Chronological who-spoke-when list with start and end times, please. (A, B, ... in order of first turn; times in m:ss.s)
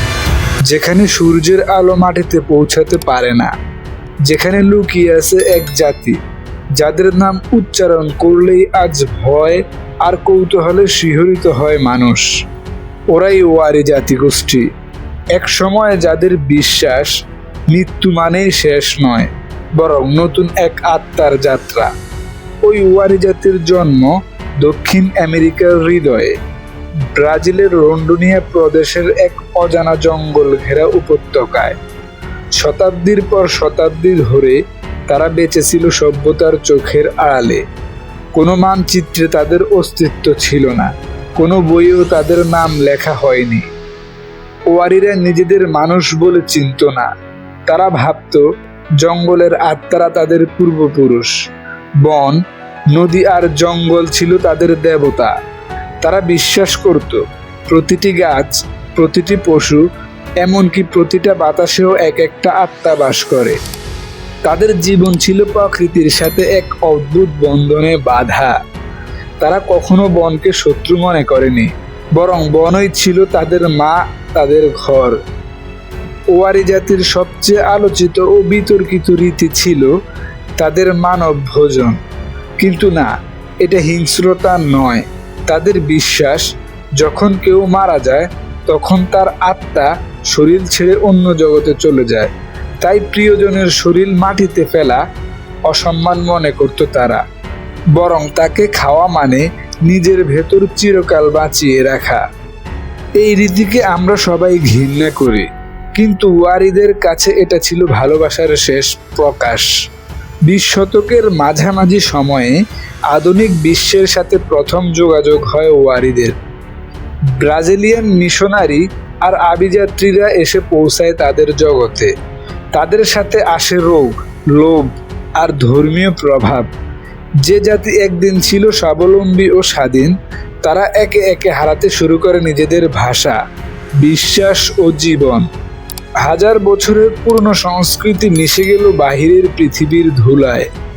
0:00.6-0:03.5 A
0:04.2-0:06.2 A
0:06.8-0:12.3 A
0:13.1-0:14.7 A
0:15.3-0:17.1 A
0:17.7-0:21.9 A
0:22.6-0:26.3 A
0:27.1-0:31.8 A
0:32.6-0:37.6 A
0:38.3-0:43.7 A
0:44.7-0:47.1 A
0:47.7-0:48.4 A
0:49.0-0:51.4 A
0:52.0-0:52.4 A
0:52.9-0:55.3 A
0:56.0-0:59.8 A
1:00.4-1:03.6 A
1:04.4-1:08.6 A
1:09.4-1:15.2 A
1:16.3-1:19.9 A
1:20.6-1:22.0 A
1:22.6-1:23.1 A
1:23.6-1:35.0 A
1:35.7-1:37.2 A
1:38.0-1:42.2 A
1:43.2-1:49.7 A
1:50.5-1:52.6 A
1:53.1-1:56.4 A
1:57.4-2:02.1 A
2:02.7-2:06.7 A
2:07.4-2:13.4 A
2:14.0-2:15.4 A
2:16.2-2:20.7 A